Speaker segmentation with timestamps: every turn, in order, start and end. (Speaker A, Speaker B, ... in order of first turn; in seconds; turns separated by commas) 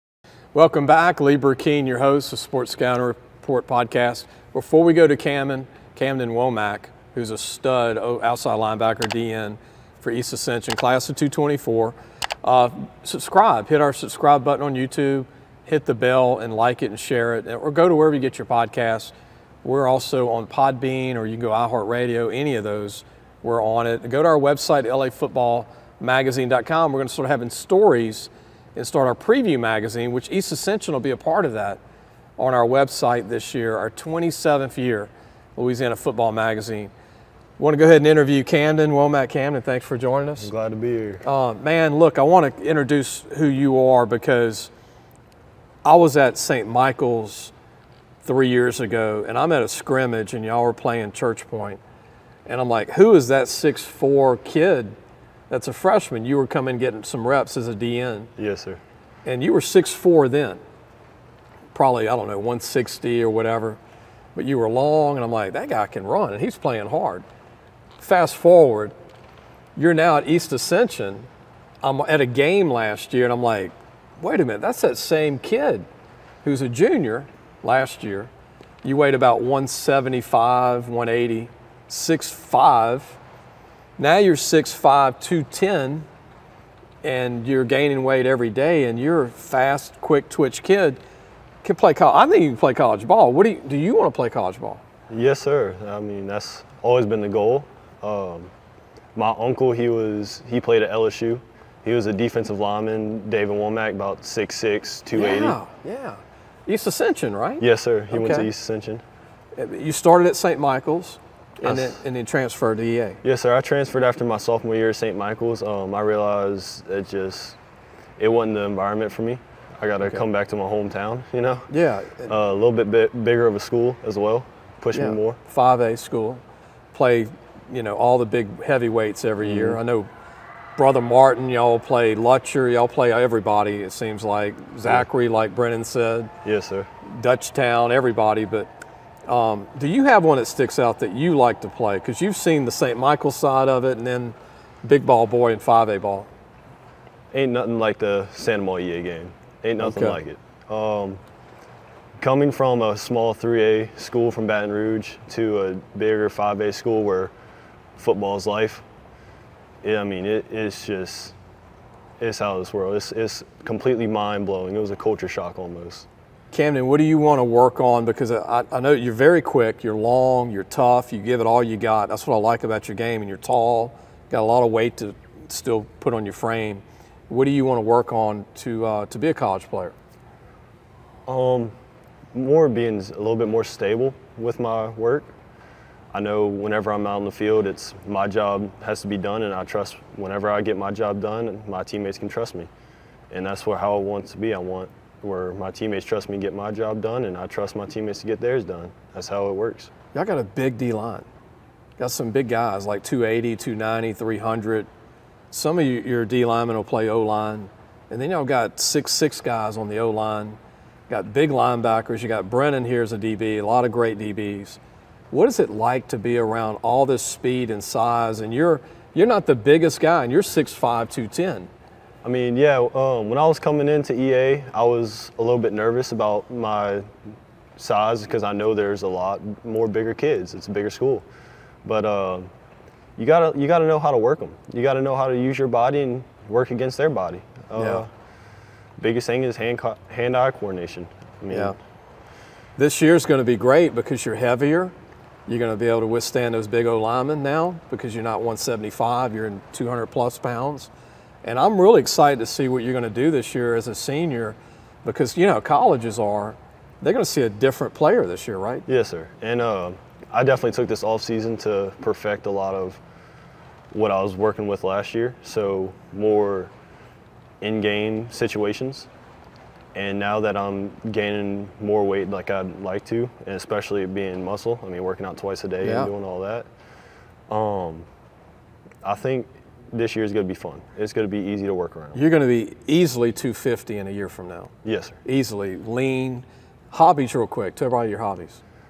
Speaker A: 0.5-31.8, Speaker A: 32.4-36.9, Speaker A: 37.6-40.5, Speaker B: 40.4-41.2, Speaker A: 41.2-44.7, Speaker A: 45.8-47.5, Speaker A: 48.2-51.8, Speaker A: 52.5-55.0, Speaker A: 55.5-58.3, Speaker B: 58.4-58.8, Speaker A: 59.2-60.6, Speaker A: 61.7-63.8, Speaker A: 64.3-67.2, Speaker A: 68.0-68.9, Speaker A: 69.8-71.3, Speaker A: 71.8-75.8, Speaker A: 76.4-78.3, Speaker A: 78.8-83.2, Speaker A: 84.0-86.1, Speaker A: 87.0-91.0, Speaker A: 91.6-94.8, Speaker B: 95.1-98.5, Speaker B: 99.1-105.6, Speaker A: 105.1-108.5, Speaker B: 107.6-109.0, Speaker A: 109.5-113.2, Speaker B: 111.6-112.0, Speaker B: 113.2-117.6, Speaker B: 118.2-121.7, Speaker A: 121.7-122.3, Speaker B: 122.2-125.4, Speaker A: 124.9-130.1, Speaker B: 129.4-129.8, Speaker A: 130.8-136.3, Speaker B: 136.4-136.9, Speaker A: 137.0-138.7, Speaker A: 139.3-146.3, Speaker B: 147.3-151.2, Speaker A: 149.8-150.2, Speaker B: 152.2-157.3, Speaker B: 157.9-158.8, Speaker B: 159.8-161.3, Speaker B: 162.2-166.1, Speaker A: 166.5-179.9, Speaker B: 181.2-181.7, Speaker B: 182.3-185.3, Speaker B: 186.1-192.7, Speaker B: 193.3-199.9, Speaker A: 200.1-201.2, Speaker A: 202.0-204.9, Speaker A: 205.5-214.8, Speaker A: 215.3-221.7, Speaker B: 222.2-227.1, Speaker B: 227.8-231.2, Speaker B: 231.8-232.5, Speaker B: 233.2-238.1, Speaker A: 237.8-238.1, Speaker B: 239.0-241.7, Speaker A: 241.5-241.7, Speaker A: 242.8-244.9, Speaker A: 245.5-250.9, Speaker A: 251.4-258.8, Speaker B: 258.9-263.0, Speaker B: 263.9-266.7, Speaker B: 267.6-269.1, Speaker B: 269.9-276.7, Speaker A: 275.8-276.1, Speaker B: 277.5-278.1, Speaker B: 279.0-282.2, Speaker A: 282.1-284.7, Speaker B: 284.8-285.2, Speaker A: 285.2-288.6